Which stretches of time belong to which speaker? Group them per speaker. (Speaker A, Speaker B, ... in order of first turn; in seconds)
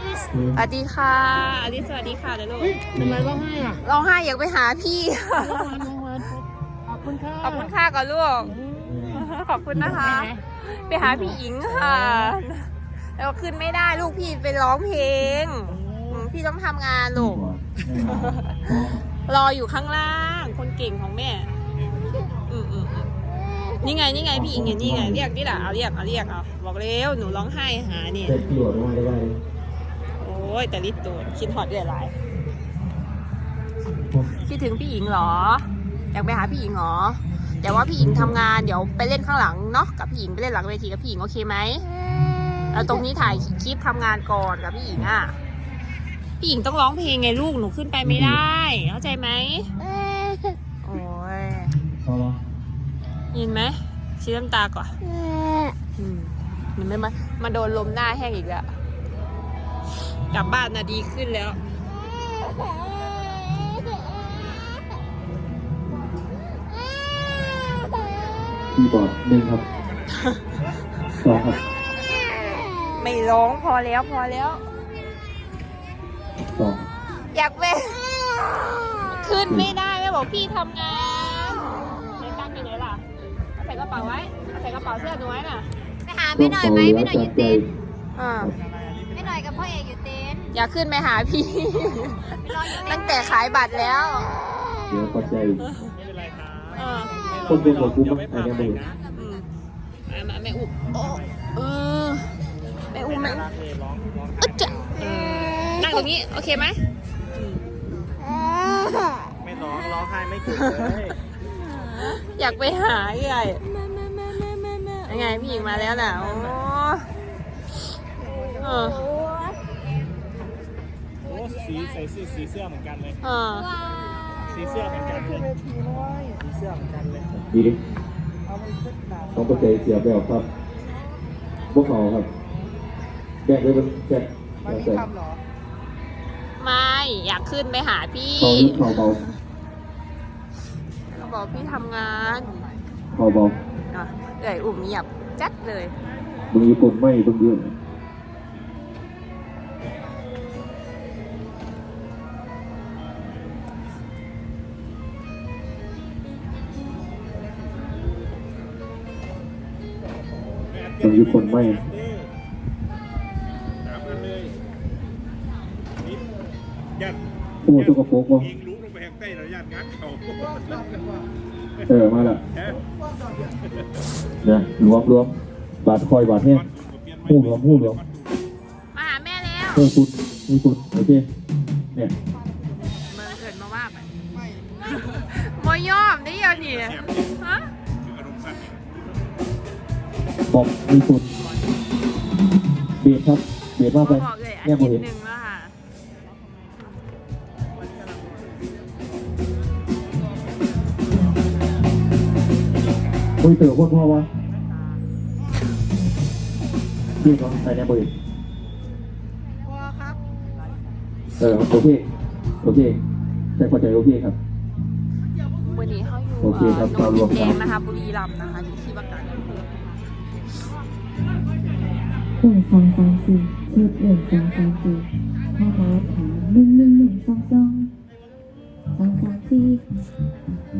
Speaker A: 0.3-0.6, 2.9-3.4, 8.8-9.2, 17.1-19.0, 24.3-25.2, 28.2-29.3, 38.1-38.3, 48.0-48.4, 51.9-52.4, 68.7-69.6, 71.2-71.6, 76.5-76.8, 86.3-87.7, 94.9-95.6, 97.4-98.8, 127.4-127.8, 129.3-130.5, 131.7-132.3, 133.4-135.1, 138.4-139.2, 143.1-143.6, 146.5-147.8, 161.0-161.9, 167.6-168.6, 171.9-172.4, 174.4-176.7, 177.2-178.0, 179.7-181.2, 190.5-191.3, 193.0-195.0, 203.4-204.3, 207.2-208.1, 211.4-212.0, 212.6-213.0, 213.6-214.4, 216.4-217.6
Speaker B: 0.5-2.9, 3.8-5.9, 7.4-17.4, 18.0-18.6, 19.3-21.5, 22.5-23.1, 23.8-28.4, 30.2-32.1, 34.4-41.9, 42.7-45.3, 46.4-49.8, 50.8-51.8, 53.3-55.0, 55.9-58.7, 60.3-61.6, 72.9-74.6, 77.3-83.0, 83.6-86.5, 88.2-88.5, 90.5-94.4, 96.7-97.4, 99.1-99.5, 100.1-102.4, 102.9-103.5, 104.4-106.8, 107.3-107.7, 110.5-110.9, 111.9-113.7, 115.0-117.1, 118.6-119.0, 123.2-123.7, 136.6-139.2, 141.1-142.7, 143.9-145.9, 178.9-179.9, 183.1-184.1, 184.8-187.7, 193.9-195.7, 215.6-220.0
Speaker C: 5.6-6.4, 6.9-7.4, 88.6-89.2, 96.0-99.1, 102.9-105.0, 109.4-111.2, 121.3-123.2, 124.4-127.4
Speaker D: 50.0-50.4, 55.1-55.7, 63.6-63.8, 86.1-87.6, 89.1-90.5, 92.7-93.0, 113.8-115.0, 119.0-119.6, 123.8-124.2, 222.4-227.8
Speaker E: 222.4-225.0, 225.6-227.9, 228.9-229.8